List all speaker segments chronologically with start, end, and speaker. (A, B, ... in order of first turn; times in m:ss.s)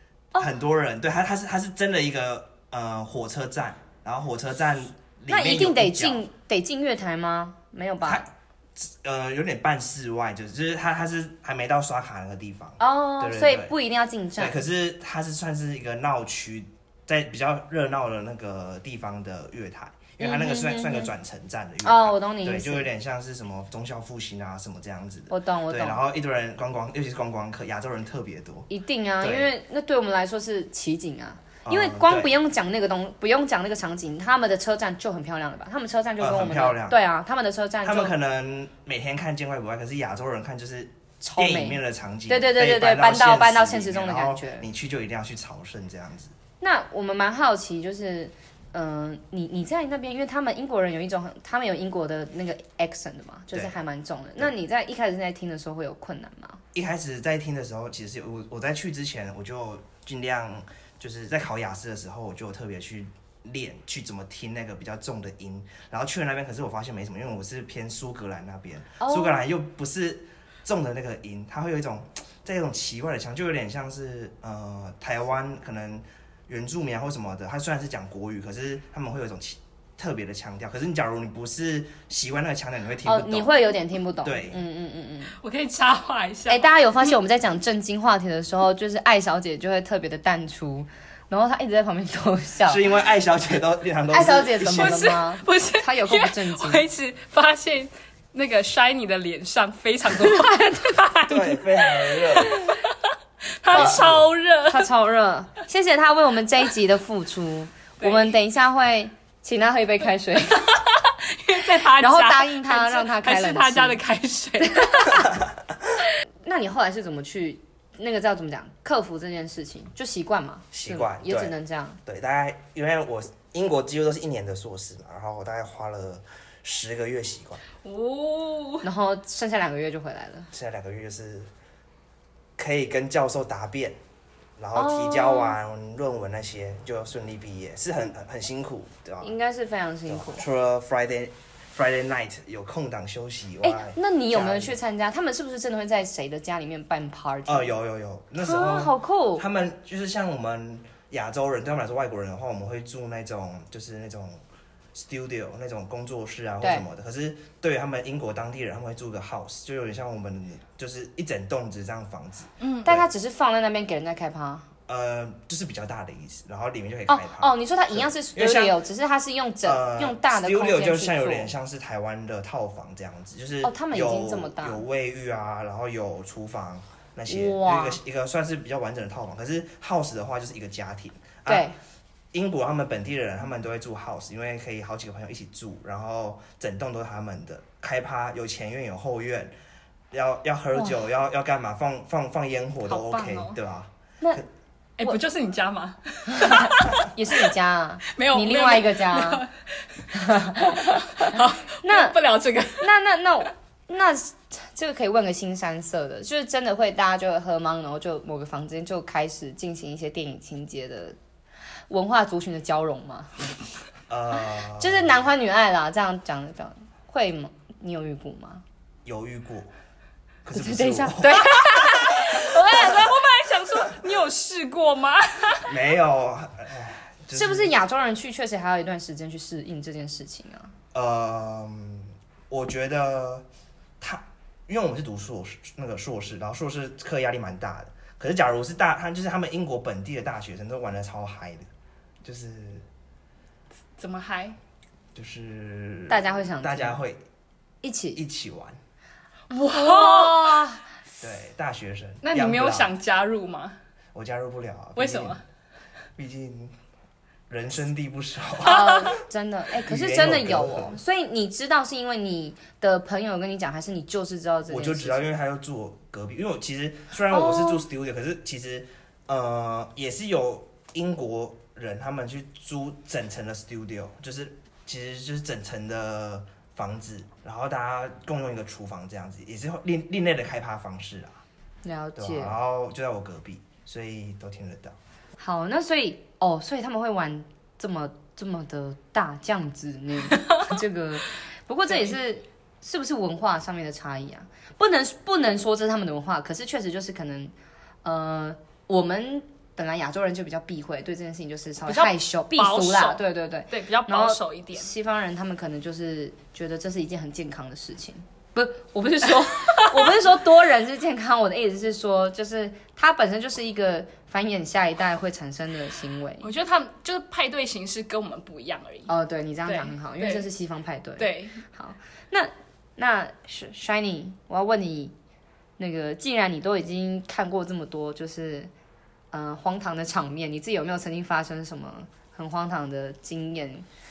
0:00.4-0:06.2 A
0:05.3-0:08.2 B
0:08.0-0:13.7 A
0:12.8-0:14.6 B
0:14.4-0:28.7 A
0:20.2-0:21.1 B
0:21.8-0:22.9 B
0:25.3-0:26.0 B
0:28.7-0:38.1 B
0:29.2-0:29.5 A
0:31.6-0:32.3 A
0:36.2-0:37.0 A
0:37.8-0:46.3 A
0:41.2-0:44.6 B
0:46.6-0:56.6 B
0:56.7-1:23.5 A
1:09.0-1:09.4 B
1:23.0-1:25.3 B
1:24.2-1:24.6 A
1:25.4-1:26.7 C
1:26.5-1:32.8 B
1:32.6-1:35.1 A
1:34.1-1:36.8 B
1:34.8-1:43.1 C
1:40.2-1:41.0 B
1:41.3-1:42.6 A
1:43.6-1:44.9 C
1:43.7-1:44.3 A
1:43.7-1:44.1 B
1:44.7-1:50.7 B
1:48.0-1:48.3 C
1:50.7-1:55.3 C
1:51.8-1:54.0 B
1:54.6-1:55.3 B
1:56.4-2:02.0 B
2:00.7-2:01.5 A
2:02.0-2:07.6 A
2:07.8-2:08.8 C
2:08.8-2:10.5 B
2:10.5-2:11.5 A
2:12.6-2:14.0 A
2:14.6-2:19.3 A
2:14.7-2:15.6 B
2:19.2-2:20.4 B
2:20.1-2:24.8 A
2:23.6-2:27.7 B
2:27.5-2:34.4 A
2:28.4-2:29.4 B
2:34.9-2:43.1 A
2:42.6-2:44.6 B
2:44.9-2:48.8 A
2:47.1-2:51.5 B
2:49.6-3:01.7 A
2:53.6-2:54.8 B
2:57.3-2:58.0 B
3:01.5-3:01.8 B
3:02.3-3:09.5 A
3:10.1-3:13.9 A
3:12.9-3:13.6 C
3:15.0-3:17.0 C
3:16.3-3:19.4 B
3:18.1-3:22.9 C
3:20.1-3:22.2 B
3:22.8-3:31.2 B
3:31.9-3:33.3 B
3:34.1-3:35.2 A
3:34.8-3:38.6 B
3:39.0-3:39.7 A
3:40.4-3:41.6 A
3:40.5-3:43.1 B
3:41.4-3:45.7 C
3:45.6-3:47.7 A
3:47.3-3:50.7 B
3:50.9-3:53.4 A
3:54.0-4:01.7 A
4:02.2-4:02.8 A
4:04.0-4:04.6 C
4:05.1-4:07.2 A
4:06.1-4:07.0 B
4:07.8-4:08.2 B
4:08.1-4:08.8 A
4:09.5-4:10.7 C
4:09.5-4:10.8 B
4:11.2-4:12.9 A
4:12.2-4:13.8 C
4:14.1-4:15.4 A
4:15.0-4:15.4 C
4:16.2-4:16.7 A
4:17.5-4:19.2 A
4:18.6-4:25.3 B
4:19.8-4:21.0 A
4:24.7-4:41.4 A
4:27.3-4:27.8 B
4:41.8-4:42.6 B
4:42.2-4:45.0 A
4:45.4-4:57.5 B
4:58.0-5:16.5 B
5:01.8-5:04.9 C
5:09.8-5:10.1 C
5:16.4-5:19.1 C
5:19.1-5:25.1 B
5:19.6-5:20.5 C
5:21.2-5:21.6 C
5:25.8-5:28.7 B
5:29.3-5:33.8 B